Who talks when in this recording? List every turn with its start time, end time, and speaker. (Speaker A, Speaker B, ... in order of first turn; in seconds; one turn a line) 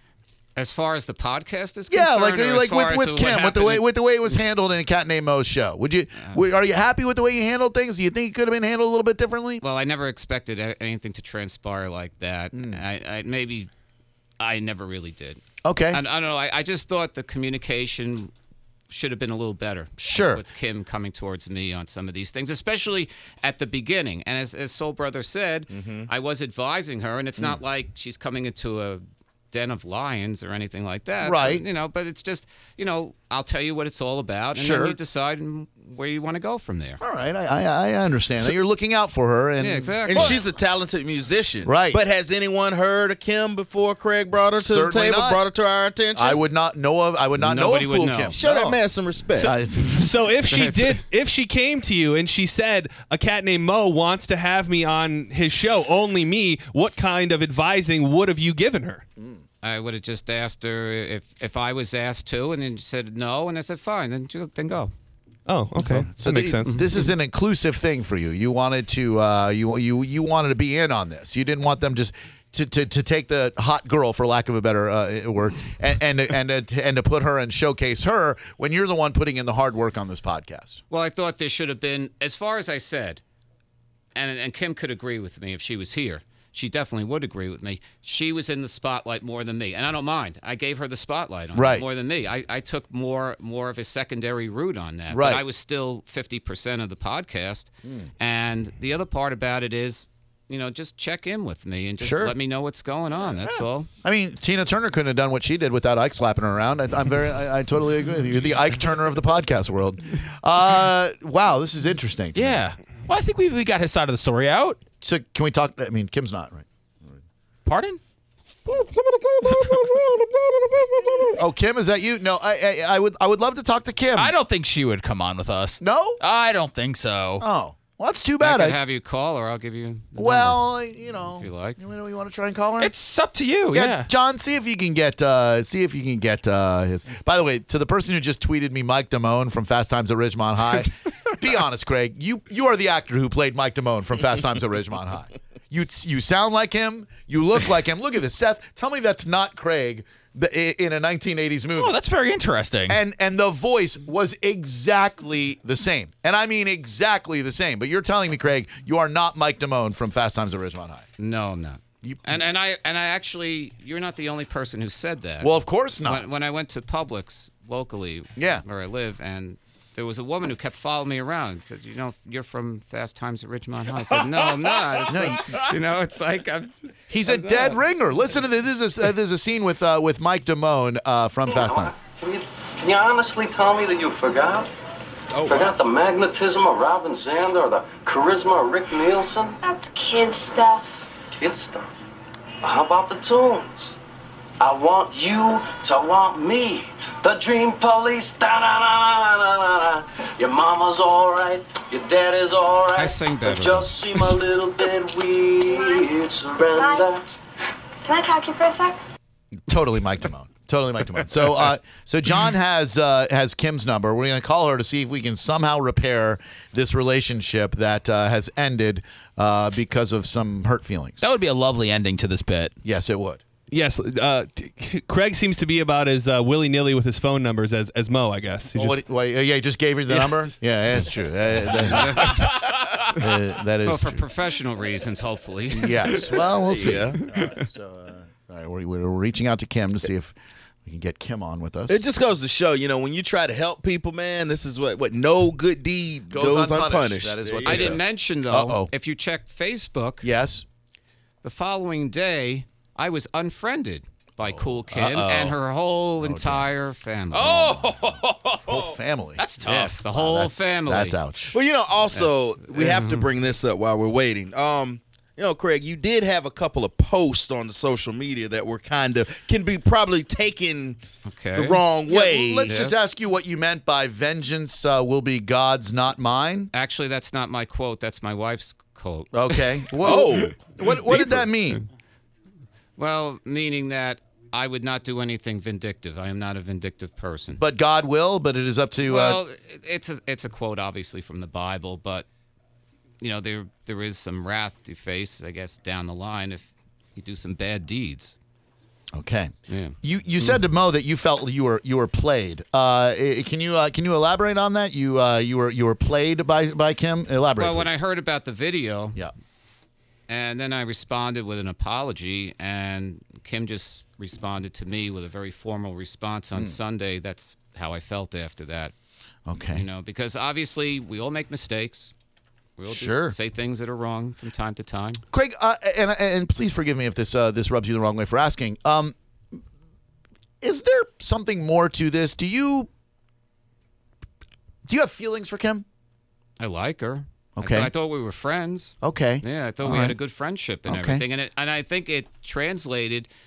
Speaker A: 0.6-3.9
Speaker B: 1.9-9.6
Speaker A: 9.6-13.7
Speaker B: 12.5-12.8
Speaker A: 14.4-18.3
Speaker B: 15.6-16.0
Speaker A: 18.9-37.0
Speaker B: 20.0-20.4
Speaker C: 25.7-26.1
Speaker B: 31.2-31.6
Speaker B: 34.5-35.0
Speaker B: 37.0-40.4
Speaker A: 39.6-40.4
Speaker C: 40.1-46.4
Speaker B: 41.6-42.0
Speaker B: 44.6-45.4
Speaker B: 46.1-48.8
Speaker A: 47.4-48.4
Speaker C: 48.3-49.5
Speaker B: 49.4-50.1
Speaker D: 49.9-59.1
Speaker A: 50.5-51.0
Speaker A: 59.6-64.9
Speaker D: 65.5-66.8
Speaker B: 65.8-80.8
Speaker A: 80.9-83.2
Speaker A: 84.2-103.9
Speaker B: 91.5-91.8
Speaker B: 95.1-95.4
Speaker B: 97.8-98.1
Speaker B: 102.0-102.3
Speaker B: 103.5-112.6
Speaker E: 112.3-114.8
Speaker B: 115.0-116.7
Speaker E: 117.7-118.0
Speaker B: 118.7-124.3
Speaker E: 124.2-127.5
Speaker B: 125.8-126.2
Speaker B: 127.4-128.8
Speaker A: 128.4-131.8
Speaker B: 130.2-132.9
Speaker E: 132.8-134.1
Speaker B: 133.7-151.9
Speaker E: 151.8-153.0
Speaker B: 152.9-161.1
Speaker A: 161.2-177.8
Speaker B: 165.4-166.2
Speaker B: 168.4-168.6
Speaker B: 175.1-175.6
Speaker B: 177.1-181.9
Speaker F: 181.5-184.7
Speaker C: 185.3-185.7
Speaker F: 185.4-189.6
Speaker G: 189.6-191.1
Speaker F: 191.4-191.9
Speaker F: 192.6-193.9
Speaker F: 194.6-207.2
Speaker A: 202.9-203.9
Speaker G: 205.7-206.1
Speaker G: 206.7-207.1
Speaker G: 208.1-209.0
Speaker B: 209.7-221.2
Speaker E: 221.2-222.7
Speaker B: 222.8-223.4
Speaker D: 223.7-229.0
Speaker B: 228.8-232.5
Speaker A: 231.7-233.2
Speaker B: 233.1-234.2
Speaker A: 233.8-237.6
Speaker B: 235.7-242.1
Speaker C: 236.7-237.2
Speaker C: 241.9-248.0
Speaker B: 246.3-248.9
Speaker A: 247.6-250.3
Speaker B: 250.2-250.7
Speaker A: 251.4-257.8
Speaker E: 255.0-255.5
Speaker B: 256.2-256.7
Speaker E: 257.3-260.0
Speaker B: 258.7-259.4
Speaker A: 259.6-261.2
Speaker B: 260.1-261.6
Speaker C: 261.5-271.0
Speaker A: 262.1-263.3
Speaker A: 271.2-271.8
Speaker C: 271.6-272.8
Speaker B: 272.1-276.7
Speaker A: 272.7-273.1
Speaker A: 276.7-280.2
Speaker B: 279.3-281.8
Speaker C: 280.0-281.4
Speaker A: 283.0-287.6
Speaker B: 287.6-289.4
Speaker A: 289.1-292.3
Speaker A: 293.2-298.4
Speaker B: 299.1-307.9
Speaker A: 299.7-300.6
Speaker A: 307.6-309.2
Speaker A: 310.3-318.9
Speaker B: 319.5-319.9
Speaker A: 319.7-322.1
Speaker A: 322.8-325.2
Speaker B: 322.9-323.4
Speaker B: 325.3-329.1
Speaker B: 330.6-332.9
Speaker B: 334.9-335.9
Speaker A: 336.6-343.3
Speaker B: 337.6-337.9
Speaker B: 339.0-340.2
Speaker B: 340.9-341.2